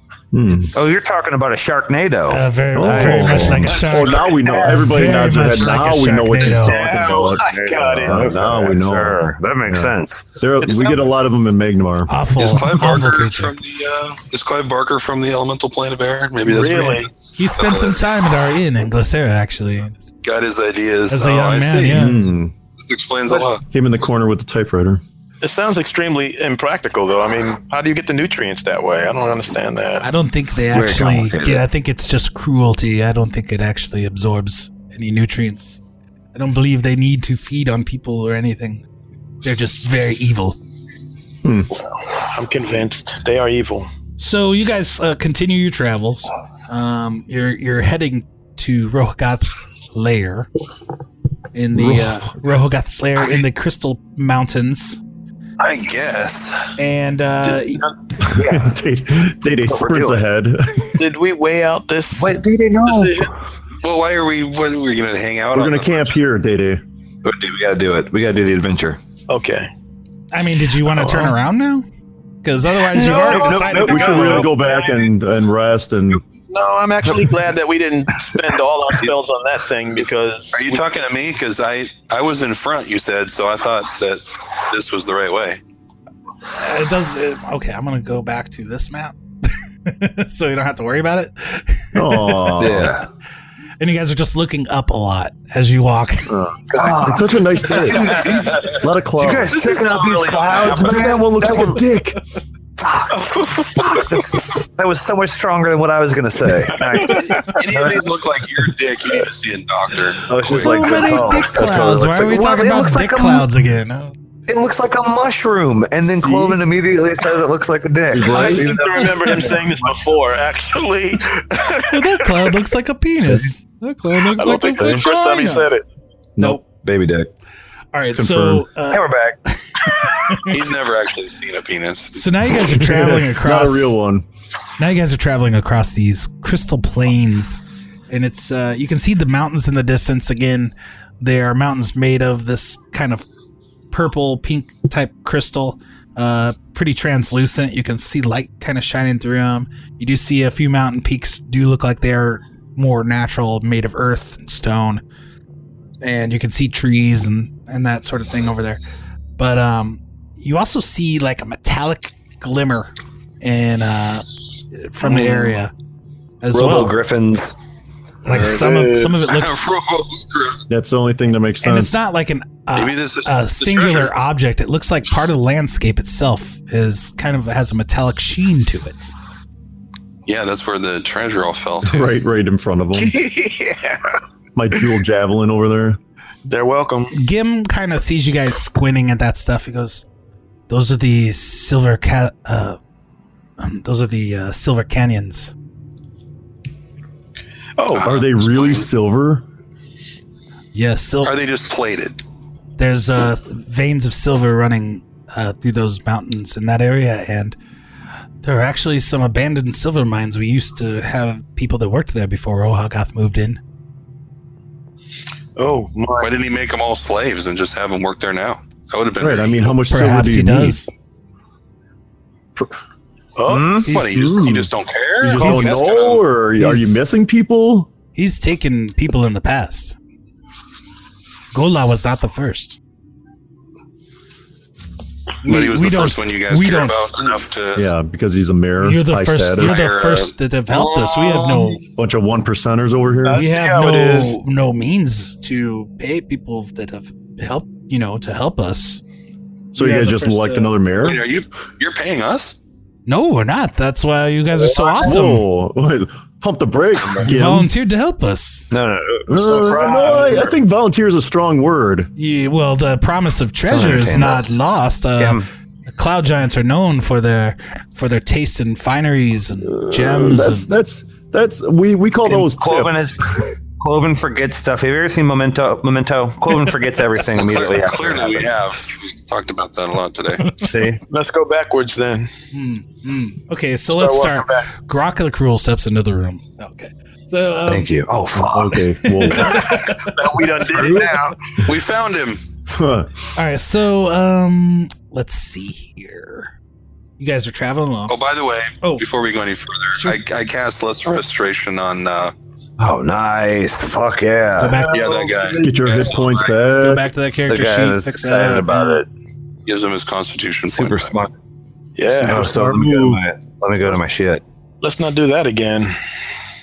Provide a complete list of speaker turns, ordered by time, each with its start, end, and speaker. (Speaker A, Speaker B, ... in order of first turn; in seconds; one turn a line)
Speaker A: 0.3-0.7
Speaker B: 0.4-0.9
Speaker C: 0.7-3.9
Speaker B: 2.3-6.8
Speaker A: 2.7-7.5
Speaker D: 4.1-4.8
Speaker D: 6.5-8.7
Speaker C: 7.3-10.4
Speaker A: 8.0-12.2
Speaker B: 12.1-13.6
Speaker E: 12.4-18.0
Speaker D: 16.4-17.1
Speaker B: 17.3-20.0
Speaker E: 20.2-22.2
Speaker B: 21.1-22.3
Speaker A: 21.9-22.5
Speaker E: 22.8-23.6
Speaker A: 23.7-25.0
Speaker D: 25.4-30.1
Speaker B: 30.0-35.8
Speaker C: 30.7-31.6
Speaker B: 36.3-38.8
Speaker B: 39.4-40.5
Speaker A: 41.4-41.7
Speaker D: 41.8-43.9
Speaker B: 44.2-50.5
Speaker B: 51.5-55.0
Speaker A: 51.7-52.3
Speaker E: 55.6-56.7
Speaker B: 56.8-57.9
Speaker D: 57.4-57.9
Speaker A: 58.2-61.0
Speaker C: 58.3-58.7
Speaker C: 59.6-60.2
Speaker D: 61.0-63.3
Speaker C: 62.1-63.3
Speaker E: 63.8-66.1
Speaker A: 65.5-66.8
Speaker C: 67.2-69.0
Speaker D: 69.3-69.7
Speaker B: 70.3-71.8
Speaker D: 71.0-71.3
Speaker B: 72.4-74.5
Speaker D: 72.9-75.0
Speaker C: 72.9-74.5
Speaker A: 73.6-76.2
Speaker D: 76.5-80.8
Speaker E: 80.5-85.6
Speaker B: 86.5-92.6
Speaker A: 91.9-93.0
Speaker C: 92.6-93.1
Speaker B: 93.8-96.4
Speaker A: 96.3-99.6
Speaker C: 96.7-101.8
Speaker E: 98.0-98.8
Speaker E: 99.7-100.9
Speaker A: 100.5-102.2
Speaker C: 102.8-108.2
Speaker D: 103.1-104.5
Speaker D: 106.8-107.4
Speaker E: 107.4-111.3
Speaker C: 110.3-113.5
Speaker B: 110.5-114.1
Speaker C: 114.5-119.5
Speaker A: 116.0-116.6
Speaker A: 118.1-118.8
Speaker D: 118.2-122.3
Speaker B: 119.0-119.6
Speaker B: 121.9-125.7
Speaker D: 124.4-125.8
Speaker C: 126.4-127.3
Speaker B: 127.9-130.6
Speaker A: 128.1-128.7
Speaker C: 128.9-130.0
Speaker E: 130.4-132.4
Speaker B: 132.1-134.0
Speaker A: 132.6-134.2
Speaker B: 134.8-143.2
Speaker B: 143.9-155.0
Speaker B: 156.0-158.8
Speaker B: 159.4-165.7
Speaker C: 165.0-165.6
Speaker B: 166.4-166.9
Speaker C: 166.5-167.5
Speaker B: 168.2-169.8
Speaker D: 168.3-169.1
Speaker E: 169.2-170.6
Speaker A: 170.7-171.9
Speaker B: 171.6-179.1
Speaker E: 172.7-174.1
Speaker E: 180.2-182.0
Speaker A: 181.8-183.2
Speaker D: 182.9-184.2
Speaker A: 184.5-186.0
Speaker D: 186.4-187.2
Speaker B: 187.1-190.0
Speaker B: 190.7-192.8
Speaker B: 193.6-195.5
Speaker D: 197.8-198.1
Speaker E: 197.9-198.8
Speaker A: 198.0-199.4
Speaker B: 200.7-201.3
Speaker E: 201.2-202.2
Speaker B: 202.8-207.6
Speaker B: 208.4-213.6
Speaker D: 215.6-216.3
Speaker E: 216.2-219.8
Speaker A: 219.2-220.8
Speaker B: 219.9-220.9
Speaker D: 223.3-223.8
Speaker C: 223.5-224.7
Speaker E: 223.9-226.2
Speaker B: 223.9-224.2
Speaker A: 225.2-227.9
Speaker B: 225.2-225.8
Speaker B: 226.6-227.0
Speaker B: 228.1-229.9
Speaker B: 231.5-232.8
Speaker B: 235.4-237.1
Speaker E: 235.4-237.8
Speaker A: 237.7-239.8
Speaker B: 238.8-241.8
Speaker E: 239.6-240.3
Speaker D: 241.1-241.6
Speaker A: 241.9-243.4
Speaker D: 243.2-244.4
Speaker B: 243.3-249.0
Speaker A: 249.7-251.2
Speaker B: 249.7-250.8
Speaker E: 251.0-252.6
Speaker B: 253.1-255.5
Speaker D: 254.7-255.1
Speaker A: 255.0-257.7
Speaker B: 257.2-258.7
Speaker C: 258.7-259.9
Speaker A: 259.3-262.1
Speaker D: 259.4-260.5
Speaker B: 262.1-270.7
Speaker C: 263.7-264.6
Speaker C: 265.2-265.4
Speaker A: 269.6-273.2
Speaker C: 272.2-278.6
Speaker E: 277.3-280.6
Speaker C: 280.6-281.0
Speaker D: 281.1-282.3
Speaker B: 282.5-287.9
Speaker D: 283.9-284.7
Speaker C: 287.7-288.9
Speaker A: 288.4-289.8
Speaker B: 289.2-290.2
Speaker D: 290.0-291.4
Speaker C: 290.7-291.1
Speaker E: 291.6-292.4
Speaker A: 292.7-293.1
Speaker B: 293.4-296.5
Speaker B: 297.2-298.1
Speaker E: 298.1-302.3
Speaker C: 302.8-304.8
Speaker B: 304.6-305.2
Speaker D: 304.8-306.1
Speaker E: 304.9-306.5
Speaker A: 305.6-307.1
Speaker B: 306.8-309.0
Speaker C: 307.5-309.1
Speaker E: 309.6-311.1
Speaker C: 310.7-311.3
Speaker D: 312.0-312.5
Speaker C: 312.2-314.4
Speaker A: 312.2-313.2
Speaker D: 314.8-316.2